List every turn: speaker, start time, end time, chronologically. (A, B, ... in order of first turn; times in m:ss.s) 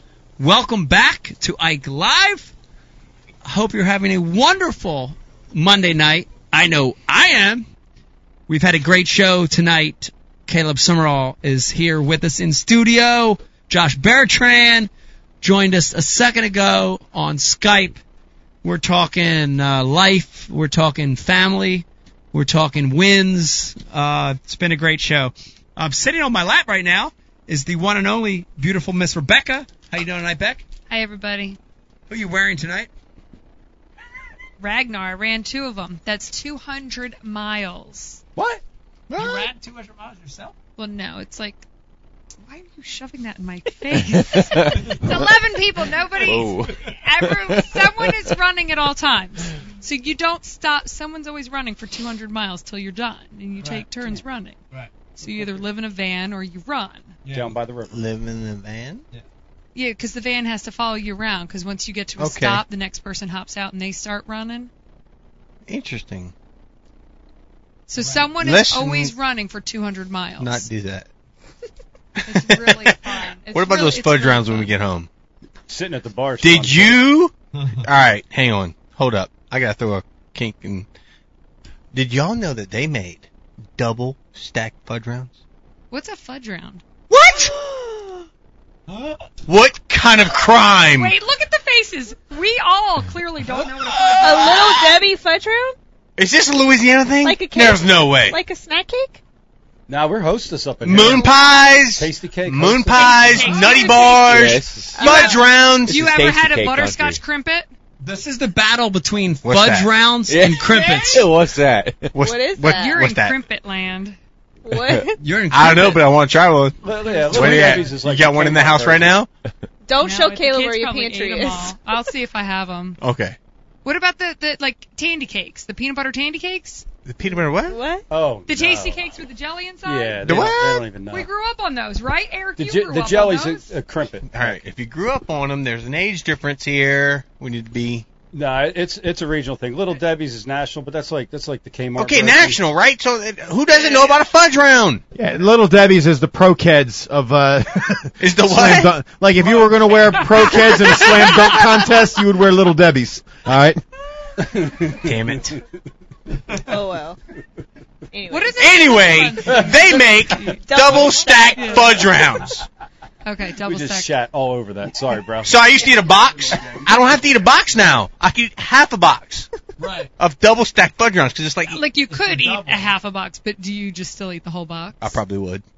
0:00.4-0:02.5 A
0:03.4-0:07.6 A
0:08.5-0:14.9 A
0:15.4-0:18.0 A
0:18.6-0:30.6 A
0:30.9-0:31.6 B
0:32.1-0:32.9 A
0:34.6-0:38.2 B
0:39.1-0:39.5 C
0:39.2-0:40.5 A
0:40.8-0:41.6 B
0:42.4-0:54.6 B
0:44.0-0:45.3 D
0:46.1-0:48.3 D
0:55.1-0:57.2 B
0:57.2-0:57.5 A
0:57.3-0:58.0 E
0:57.9-0:59.0 C
0:59.7-1:04.7 B
1:02.2-1:02.6 C
1:05.7-1:06.3 C
1:07.9-1:10.6 B
1:08.4-1:09.1 C
1:10.4-1:11.1 C
1:12.2-1:15.1 C
1:12.2-1:14.7 B
1:15.7-1:17.0 E
1:16.4-1:20.9 C
1:21.9-1:25.3 C
1:25.9-1:26.8 B
1:27.1-1:27.7 C
1:29.4-1:31.1 C
1:30.9-1:34.8 B
1:34.1-1:35.8 F
1:36.2-1:38.4 C
1:37.2-1:39.2 F
1:39.9-1:41.3 E
1:40.8-1:46.0 C
1:41.0-1:41.7 B
1:41.9-1:44.0 E
1:42.9-1:47.7 B
1:44.2-1:45.0 D
1:44.9-1:45.4 F
1:45.8-1:47.2 D
1:48.0-1:51.2 A
1:49.4-1:49.9 C
1:50.3-1:52.1 D
1:50.6-1:51.3 B
1:52.1-1:53.4 C
1:52.2-1:53.0 F
1:52.7-1:54.2 B
1:54.6-1:55.2 F
1:55.2-1:56.1 A
1:55.5-1:59.3 C
1:56.8-1:59.2 E
1:57.0-1:57.9 B
1:59.8-2:02.1 F
2:00.0-2:03.0 B
2:03.0-2:03.4 C
2:03.8-2:06.8 B
2:07.0-2:07.8 C
2:07.6-2:08.1 F
2:08.1-2:09.1 E
2:08.5-2:10.5 B
2:09.8-2:11.3 E
2:10.2-2:10.9 C
2:11.0-2:13.7 B
2:12.6-2:14.6 E
2:14.3-2:18.0 C
2:18.3-2:22.6 E
2:22.0-2:25.0 C
2:25.1-2:33.8 G
2:28.2-2:28.9 C
2:30.9-2:31.1 F
2:34.4-2:35.4 E
2:35.0-2:35.6 C
2:36.5-2:37.2 F
2:38.1-2:39.0 F
2:38.3-2:40.6 B
2:38.6-2:42.7 C
2:40.6-2:42.0 F
2:41.6-2:41.9 B
2:43.2-2:44.1 B
2:43.6-2:45.6 E
2:45.4-2:49.5 C
2:49.8-2:50.1 A
2:50.2-2:51.8 C
2:51.7-2:55.2 B
2:52.1-2:52.9 A
2:55.0-2:55.6 C